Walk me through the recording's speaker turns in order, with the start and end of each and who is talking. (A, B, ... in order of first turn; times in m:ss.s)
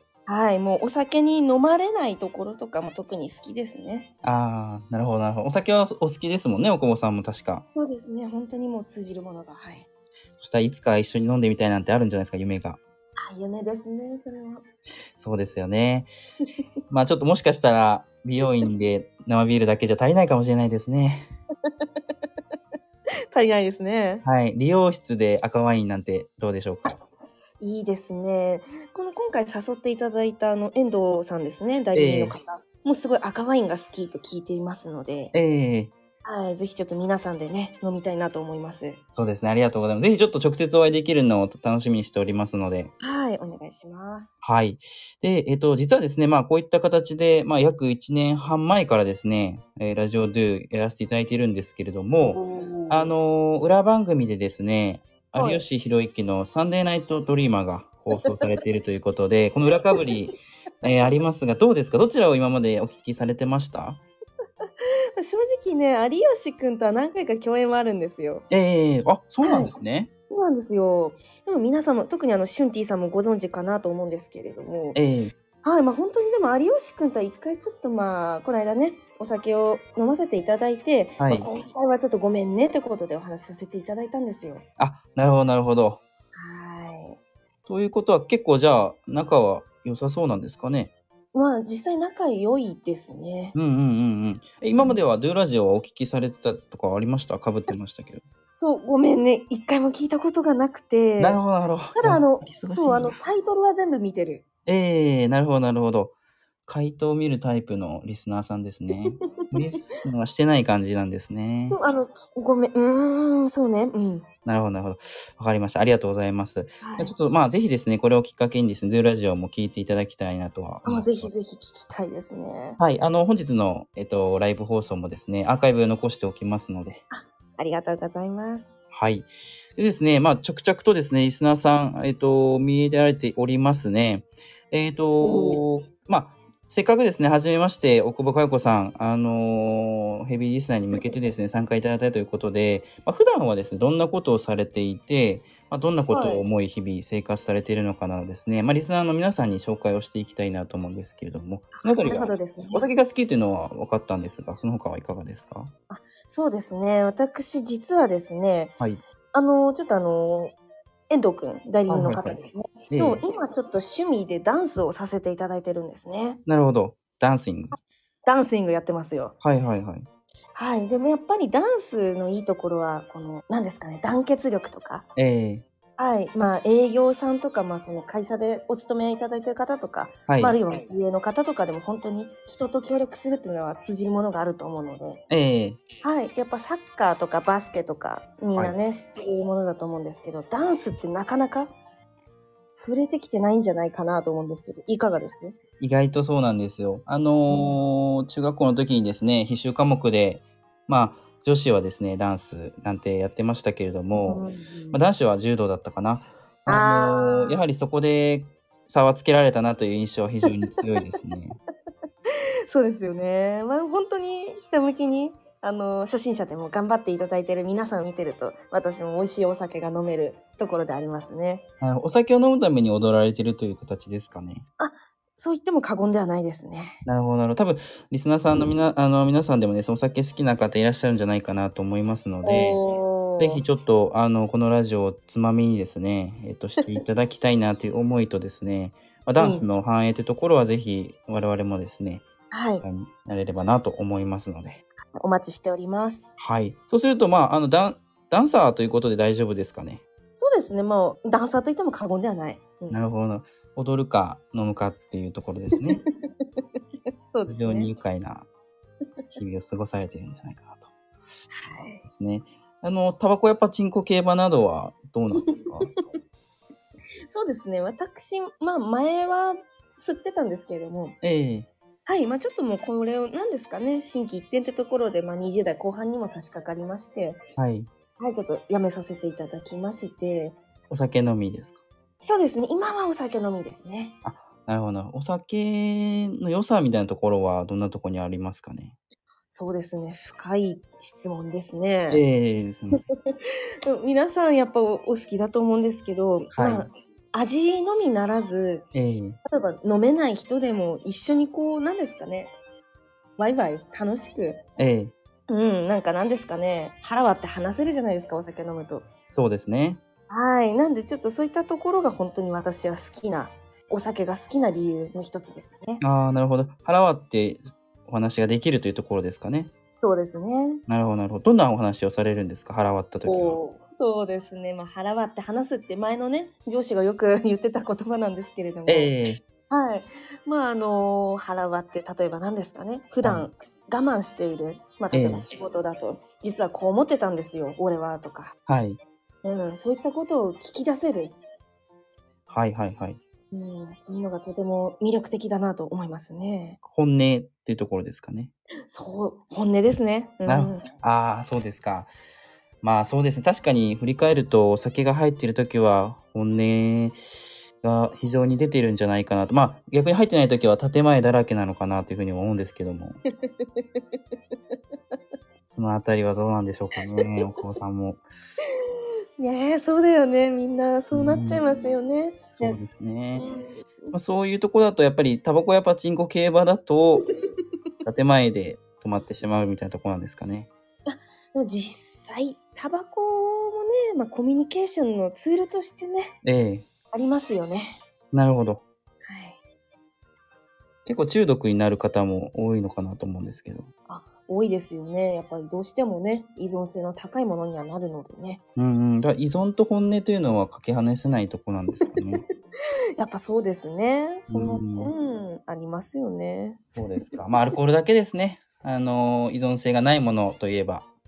0:00.3-0:04.1 A
0:04.2-0:07.6 B
0:07.7-0:09.9 A
0:10.4-0:12.8 B
0:13.2-0:14.6 A
0:15.2-0:16.1 B
0:16.9-0:21.3 B
0:23.3-0:24.2 A
0:24.2-0:27.0 B
0:27.6-0:35.3 A
0:31.9-0:32.4 B
0:35.3-0:35.9 B
0:36.2-0:39.0 A
0:39.1-0:42.9 B
0:43.0-0:44.3 A
0:44.4-1:04.0 B
0:52.2-0:53.1 A
0:55.4-0:55.6 A
1:04.8-1:08.4 A
1:08.5-1:10.1 B
1:09.4-1:09.7 A
1:10.3-1:15.0 A
1:14.9-1:15.3 B
1:15.6-1:24.6 A
1:21.2-1:21.5 B
1:24.8-1:26.0 B
1:26.3-1:27.2 A
1:27.7-1:30.9 B
1:31.3-1:33.5 A
1:33.5-1:38.2 B
1:38.6-1:41.4 A
1:41.2-1:43.2 B
1:41.9-1:44.4 A
1:44.6-1:46.1 B
1:46.7-1:51.8 B
1:49.4-1:50.0 A
1:51.6-1:54.3 A
1:54.4-2:01.3 B
1:56.8-1:57.1 A
2:00.8-2:02.8 A
2:02.8-2:07.0 B
2:07.1-2:08.7 A
2:08.9-2:35.7 B
2:15.2-2:15.6 A
2:26.1-2:26.4 A
2:31.8-2:32.8 A
2:35.9-2:38.7 A
2:39.3-2:40.5 A
2:41.1-2:46.4 A
2:41.9-2:42.4 B
2:42.9-2:43.2 B
2:46.4-2:47.7 B
2:48.2-2:49.3 A
2:49.4-2:50.1 B
2:50.5-2:55.1 A
2:55.2-2:55.6 B
2:56.0-3:05.2 A
3:00.3-3:00.6 B
3:05.3-3:05.8 B
3:06.0-3:11.7 A
3:12.8-3:15.5 A
3:15.8-3:31.6 B
3:17.5-3:17.8 A
3:24.2-3:25.0 A
3:26.7-3:27.6 A
3:30.5-3:30.8 A
3:32.7-3:41.6 A
3:41.8-3:44.6 B
3:44.8-3:47.0 A
3:47.0-3:52.8 B
3:52.4-3:53.6 A
3:53.4-4:02.2 B
3:59.4-3:59.7 A
4:02.5-4:02.8 A
4:02.8-4:04.8 B
4:05.2-4:06.3 A
4:06.4-4:10.0 B
4:10.3-4:13.0 A
4:12.9-4:16.0 B
4:15.7-4:16.6 A
4:17.2-4:17.9 A
4:17.5-4:18.5 B
4:19.4-4:20.9 B
4:21.5-4:22.0 A
4:22.0-4:25.9 B
4:25.4-4:26.0 A
4:27.3-4:31.2 A
4:31.2-4:31.7 B
4:32.0-4:37.4 A
4:37.6-4:37.9 B
4:38.2-4:40.6 A
4:40.9-4:41.8 B
4:42.2-4:44.2 A
4:44.2-4:49.0 B
4:49.5-4:52.2 A
4:52.1-4:53.0 B
4:52.9-4:58.8 A
4:56.5-4:56.9 B
4:58.9-4:59.4 B
4:59.4-5:02.5 A
5:03.4-5:04.6 A
5:04.8-5:05.1 B
5:05.5-5:09.1 A
5:09.3-5:10.0 B
5:10.3-5:16.0 A
5:16.0-5:19.7 B
5:20.0-5:20.8 A
5:20.9-5:23.6 B
5:23.2-5:29.2 A
5:28.9-5:29.4 B
5:29.7-5:38.6 A
5:33.2-5:33.5 B
5:35.1-5:35.4 B
5:38.7-5:39.0 B
5:39.4-5:41.4 A
5:42.5-5:43.2 B
5:43.5-5:46.8 A
5:46.9-5:48.5 B
5:48.9-5:50.9 A
5:50.4-5:52.1 B
5:52.8-6:03.2 B
6:03.5-6:04.0 A
6:05.7-6:08.2 B
6:07.1-6:07.4 A
6:09.4-6:12.8 A
6:11.1-6:11.6 B
6:12.5-6:13.5 B
6:13.4-6:14.1 A
6:14.1-6:17.2 B
6:18.0-6:20.7 B
6:21.0-6:26.4 A
6:26.4-6:26.8 B
6:27.1-6:28.0 A
6:28.3-6:28.8 B
6:29.2-6:29.6 A
6:31.0-6:33.9 B
6:34.1-6:38.6 A
6:38.8-6:42.4 B
6:43.2-6:47.4 A
6:44.5-6:45.1 B
6:47.0-6:51.0 B